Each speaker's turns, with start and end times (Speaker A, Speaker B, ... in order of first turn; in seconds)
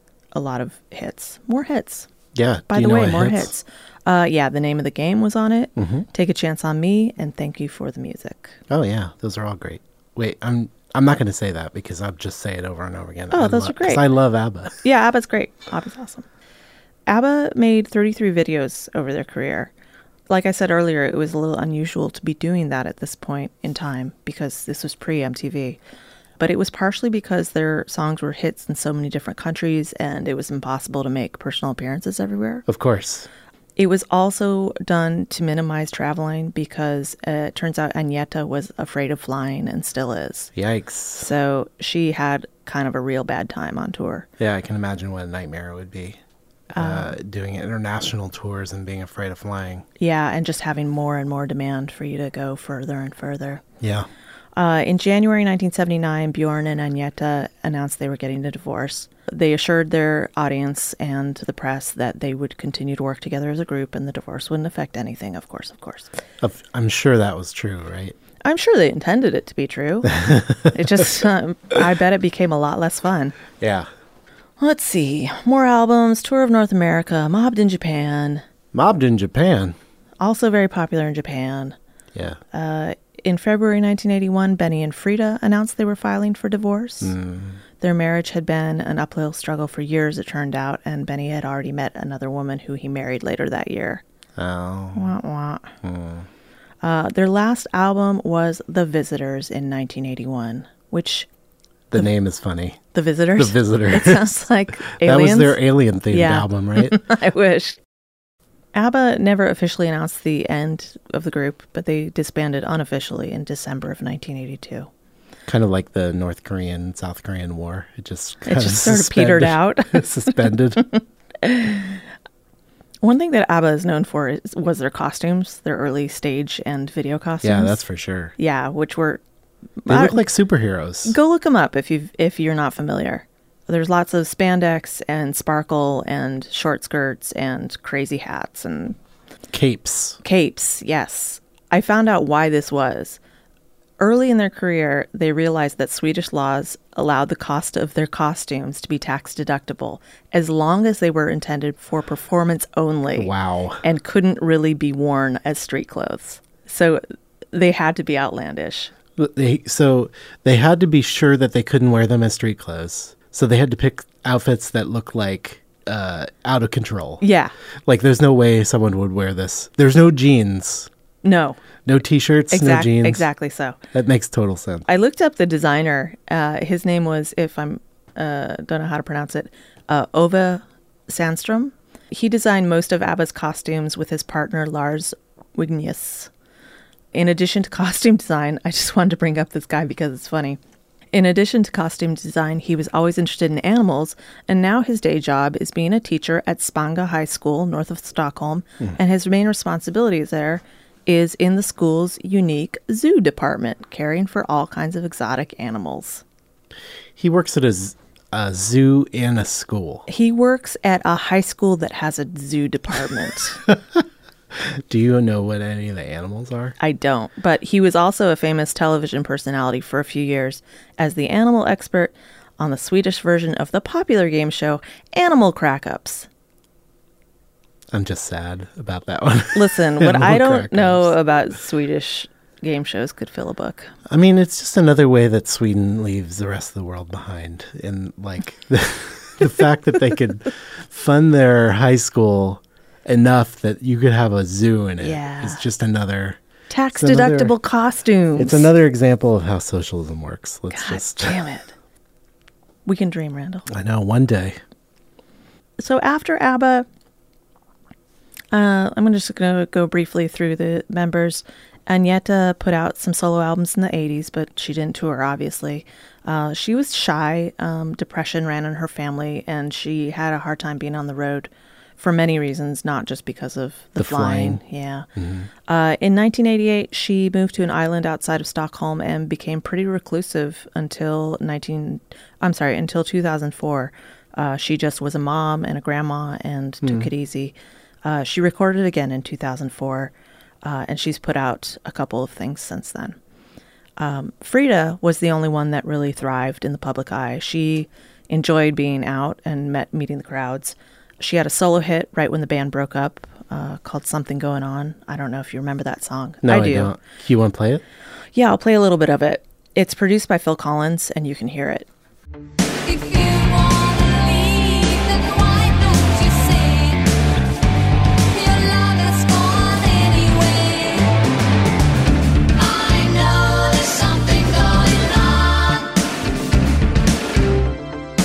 Speaker A: 0.3-2.1, 2.7-8.6, 13.3-14.0, 14.8-16.3, 17.1-19.7, 20.3-25.8, 26.4-32.6, 33.8-40.5, 41.2-44.3, 46.8-47.1, 50.0-53.6, 54.6-66.1, 68.4-73.4, 74.6-78.4, 80.2-81.8, 82.5-87.2, 87.8-94.0, 94.9-95.7, 96.8-101.3, 102.9-107.8, 108.7-114.9, 118.5-122.0, 123.0-127.8, 128.4-129.2, 129.8-130.2, 131.0-139.0, 140.2-143.2, 144.0-158.9, 167.2-167.5, 171.2-171.6, 172.5-173.8, 174.9-186.3, 187.1-190.6, 191.1-206.2, 210.1-213.7, 216.8-226.3, 229.5-233.9, 245.0-245.6, 246.7-248.7, 250.7-251.7, 252.9-253.7, 255.8-256.9, 258.5-275.1, 275.7-290.1, 290.6-293.2, 294.0-306.9, 308.3-311.9
Speaker B: 2.4-3.5, 5.8-6.1, 8.7-14.8, 32.7-33.3, 40.6-41.3, 44.4-46.2, 46.8-49.9, 53.8-54.1, 66.4-68.2, 70.1-70.7, 73.6-73.9, 78.7-79.8, 82.1-82.4, 87.0-87.6, 94.4-95.1, 95.8-96.3, 101.9-102.8, 103.4-104.4, 104.9-107.0, 115.5-120.9, 127.4-128.3, 129.9-131.2, 139.5-140.2, 153.2-153.8, 159.2-167.2, 167.9-170.9, 171.8-173.3, 173.9-174.9, 207.2-210.1, 214.5-216.8, 227.9-231.1, 234.1-246.4, 246.9-247.6, 248.4-251.4, 253.7-254.6, 274.0-274.6, 275.2-275.5, 286.8-287.1, 306.4-307.8
Speaker C: 312.9-317.1, 318.3-321.2, 322.6-325.9